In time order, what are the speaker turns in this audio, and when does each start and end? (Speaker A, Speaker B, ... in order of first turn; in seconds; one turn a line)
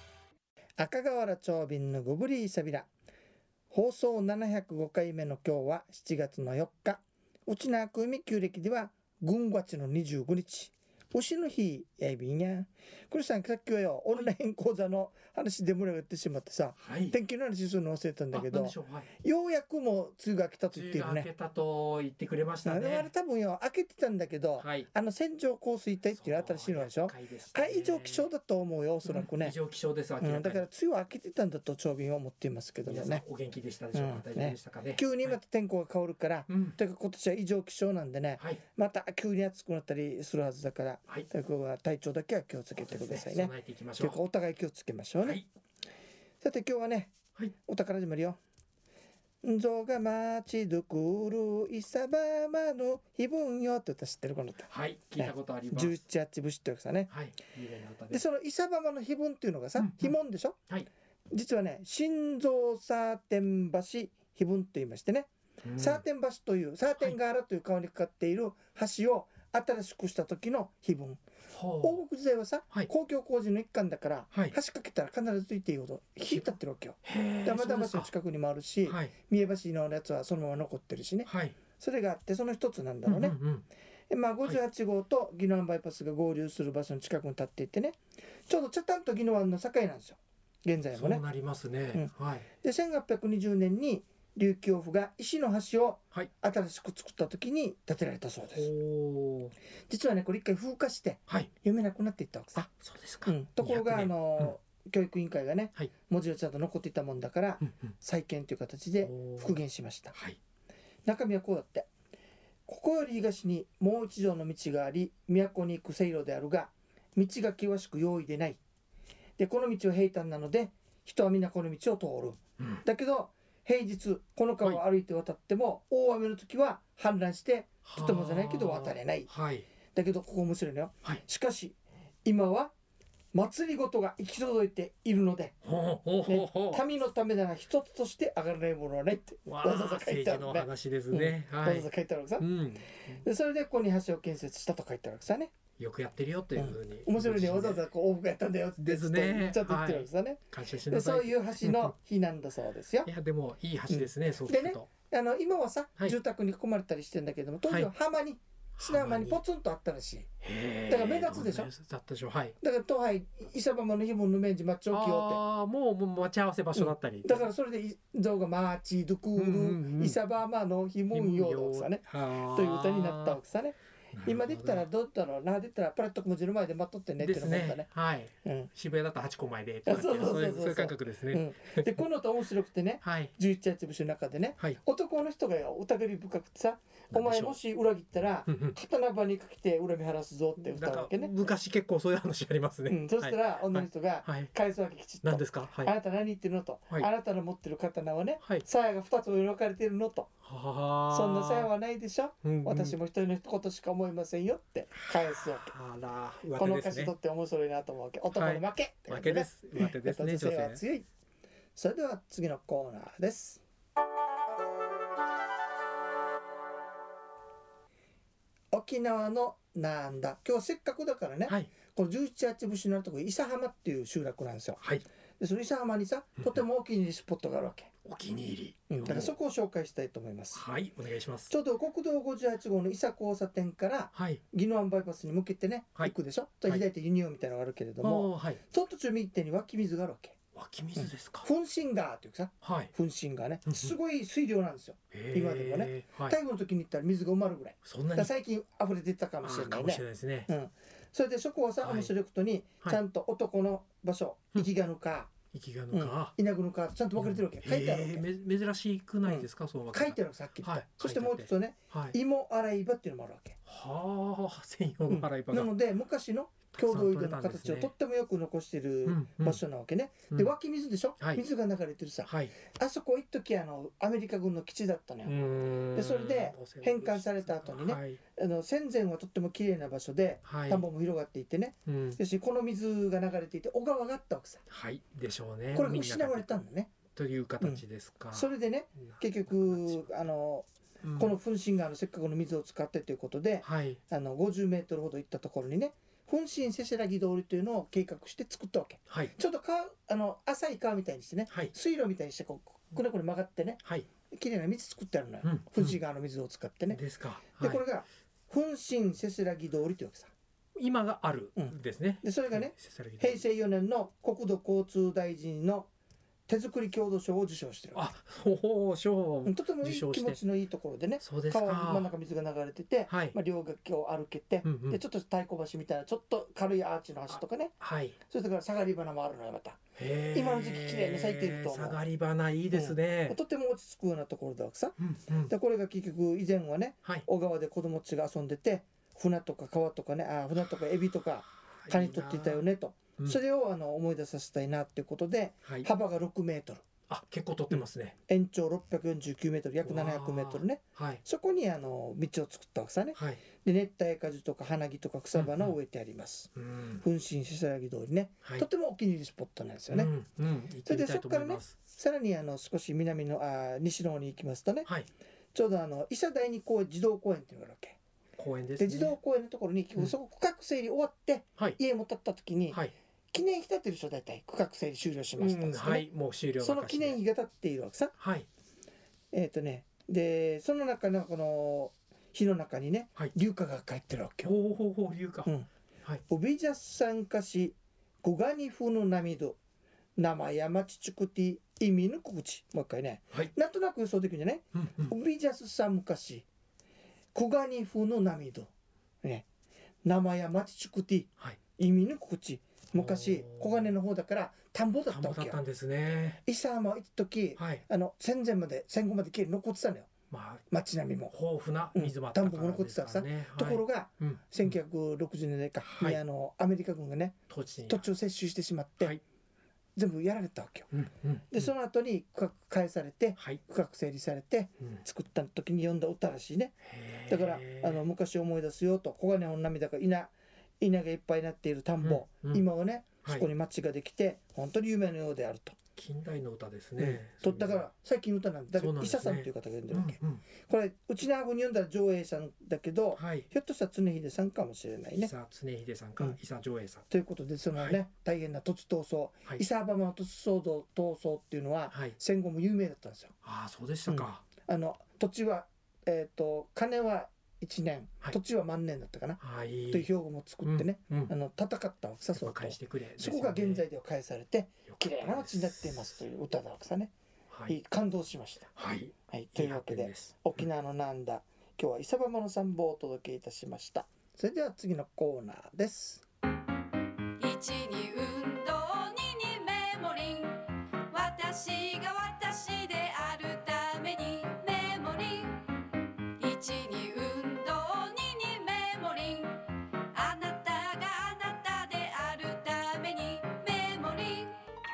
Speaker A: 0.8-2.9
Speaker A: 3.7-21.3
Speaker B: 16.8-17.2
Speaker B: 18.3-19.1
Speaker B: 20.7-23.1
Speaker A: 22.6-29.6
Speaker B: 24.6-24.9
Speaker B: 26.1-28.3
Speaker B: 29.1-30.6
Speaker A: 30.2-33.2
Speaker B: 32.8-35.4
Speaker A: 33.9-45.4
Speaker B: 36.5-36.8
Speaker B: 42.7-44.2
Speaker B: 45.2-45.5
Speaker A: 46.4-47.1
Speaker A: 47.6-48.4
Speaker A: 49.4-57.1
Speaker B: 54.7-56.0
Speaker B: 57.1-58.2
Speaker A: 58.1-60.6
Speaker B: 59.8-60.1
Speaker A: 61.3-71.2
Speaker B: 65.6-66.0
Speaker B: 71.5-72.0
Speaker A: 71.8-83.4
Speaker B: 77.0-78.1
Speaker B: 78.8-79.1
Speaker B: 81.2-81.6
Speaker B: 83.0-83.7
Speaker A: 84.1-91.2
Speaker B: 90.9-92.5
Speaker A: 91.9-98.7
Speaker B: 98.5-99.5
Speaker A: 99.9-102.7
Speaker B: 102.5-104.5
Speaker A: 103.2-110.1
Speaker B: 109.0-109.6
Speaker A: 111.0-111.9
Speaker A: 112.7-118.6
Speaker A: 119.4-129.3
Speaker B: 127.8-129.7
Speaker A: 129.9-132.7
Speaker A: 133.3-135.6
Speaker B: 135.6-136.8
Speaker A: 136.2-142.5
Speaker B: 139.4-143.2
Speaker A: 143.1-145.5
Speaker B: 145.8-147.8
Speaker A: 146.5-153.1
Speaker B: 148.8-151.9
Speaker B: 153.0-154.9
Speaker A: 153.9-160.3
Speaker B: 157.6-157.9
Speaker B: 158.8-159.4
Speaker B: 160.4-162.5
Speaker A: 160.9-161.7
Speaker A: 162.6-165.4
Speaker B: 164.9-167.5
Speaker A: 166.7-177.9
Speaker B: 169.3-170.2
Speaker B: 171.1-173.4
Speaker B: 174.1-174.8
Speaker B: 177.2-182.0
Speaker A: 178.4-178.7
Speaker A: 179.8-191.3
Speaker B: 183.0-183.3
Speaker B: 187.1-187.6
Speaker B: 188.5-188.8
Speaker B: 190.6-194.5
Speaker A: 192.9-200.3
Speaker B: 195.2-195.9
Speaker B: 200.4-201.7
Speaker A: 201.1-205.7
Speaker B: 202.4-202.9
Speaker B: 205.1-207.1
Speaker A: 206.5-211.1
Speaker B: 208.3-210.8
Speaker A: 211.8-213.6
Speaker A: 218.7-224.8
Speaker B: 221.5-221.7
Speaker A: 225.4-227.9
Speaker B: 228.0-229.3
Speaker A: 228.9-230.6
Speaker B: 230.5-231.5
Speaker A: 231.5-240.4
Speaker B: 234.1-234.4
Speaker B: 238.0-238.6
Speaker B: 240.5-241.5
Speaker A: 240.9-255.3
Speaker B: 242.6-242.9
Speaker B: 243.7-243.9
Speaker B: 245.1-246.4
Speaker B: 247.8-248.3
Speaker B: 249.4-250.5
Speaker B: 251.8-252.1
Speaker B: 255.5-256.3
Speaker A: 255.9-258.2
Speaker B: 257.2-262.1
Speaker A: 259.2-263.6
Speaker B: 263.6-265.7
Speaker A: 265.1-275.3
Speaker B: 266.7-267.9
Speaker B: 269.1-269.6
Speaker B: 271.2-271.4
Speaker B: 272.2-272.5
Speaker B: 275.2-278.2
Speaker A: 275.9-284.6
Speaker B: 280.4-280.8
Speaker B: 281.9-282.2
Speaker B: 284.7-286.5
Speaker A: 285.7-286.9
Speaker B: 287.1-288.5
Speaker A: 287.6-307.0
Speaker B: 289.5-290.1
Speaker B: 291.0-291.3
Speaker B: 293.6-294.0
Speaker B: 299.1-299.3
Speaker B: 305.4-306.0
Speaker B: 306.9-307.8
Speaker A: 307.6-310.3
Speaker B: 310.8-313.4
Speaker A: 311.6-315.9
Speaker A: 316.5-318.1
Speaker B: 317.9-320.4
Speaker A: 319.4-327.7
Speaker B: 321.2-322.1
Speaker B: 323.1-323.3
Speaker B: 324.6-325.0
Speaker B: 327.3-328.2
Speaker A: 328.3-329.8
Speaker B: 330.0-333.4
Speaker A: 330.3-332.0
Speaker A: 332.7-346.8
Speaker B: 335.0-335.5
Speaker B: 341.8-342.6
Speaker B: 347.1-348.1
Speaker A: 347.7-360.1
Speaker B: 349.8-351.2
Speaker B: 353.1-353.4
Speaker B: 355.3-355.7
Speaker B: 356.6-357.0
Speaker B: 359.9-361.7
Speaker A: 360.8-364.9
Speaker A: 365.5-368.0
Speaker B: 368.4-369.2
Speaker A: 368.8-372.8
Speaker A: 373.3-376.1
Speaker B: 375.4-377.2
Speaker A: 376.6-378.1
Speaker B: 378.2-378.5
Speaker A: 379.3-384.6
Speaker B: 384.4-385.5
Speaker A: 386.3-389.6
Speaker A: 390.1-396.4
Speaker B: 394.7-395.1
Speaker A: 397.3-398.7
Speaker A: 400.0-405.6
Speaker B: 402.9-403.9
Speaker B: 405.1-406.4
Speaker A: 406.4-410.1
Speaker B: 407.6-407.8
Speaker B: 410.3-410.6
Speaker A: 410.7-411.3
Speaker B: 411.3-414.7
Speaker A: 411.9-419.1
Speaker B: 417.5-418.1
Speaker A: 419.9-420.9
Speaker B: 420.9-421.7
Speaker A: 421.5-426.7
Speaker B: 426.8-428.0
Speaker A: 427.3-435.8
Speaker B: 432.0-432.6
Speaker B: 435.9-437.9
Speaker A: 437.0-445.3
Speaker B: 438.8-440.4
Speaker B: 443.1-443.4
Speaker B: 445.1-447.1
Speaker A: 447.1-453.3
Speaker B: 451.9-452.1
Speaker B: 453.4-454.4
Speaker A: 454.1-467.1
Speaker B: 459.4-460.1
Speaker B: 460.6-461.3
Speaker B: 462.4-463.9
Speaker B: 464.9-466.1
Speaker A: 467.7-468.7
Speaker B: 468.8-470.6
Speaker A: 469.3-476.2
Speaker C: 477.4-485.7
Speaker C: 486.4-494.6